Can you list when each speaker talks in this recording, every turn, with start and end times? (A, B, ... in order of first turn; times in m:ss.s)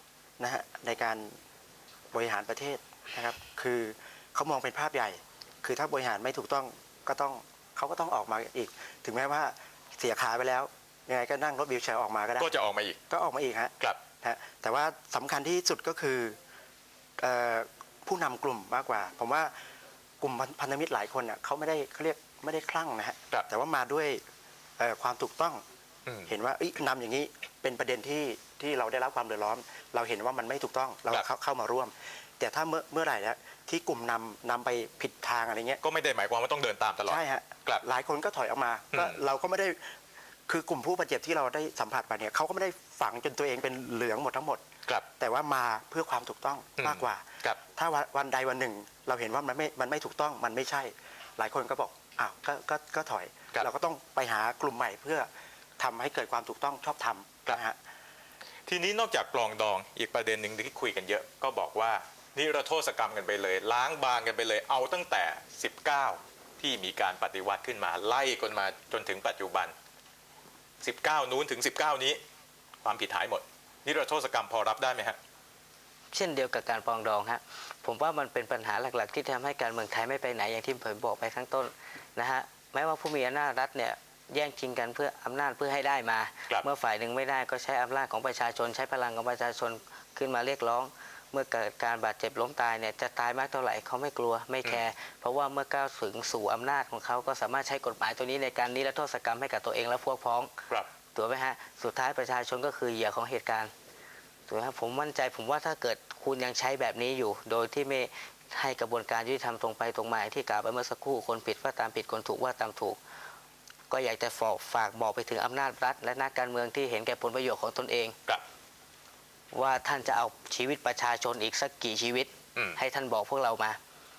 0:00.4-0:01.3 A
0:02.1-0:12.5 A
0:12.4-0:13.0 B
0:13.1-0:16.4 A
0:17.2-0:19.5 A
0:20.2-0:24.2 A
0:24.8-0:25.6 A
0:26.1-0:26.3 B
0:26.3-0:35.8 A
0:35.8-0:37.8 B
0:37.1-0:39.9 A
0:38.9-0:39.2 B
0:40.5-0:44.6 A
0:45.2-0:57.8 A
0:46.8-0:47.6 B
0:58.7-1:09.7 B
1:10.8-1:12.2 B
1:12.8-1:15.2 B
1:16.1-1:40.5 C
1:41.2-1:43.7 C
1:44.5-1:53.0 C
1:53.9-1:58.2 C
1:59.5-2:03.8 C
2:02.6-2:02.8 B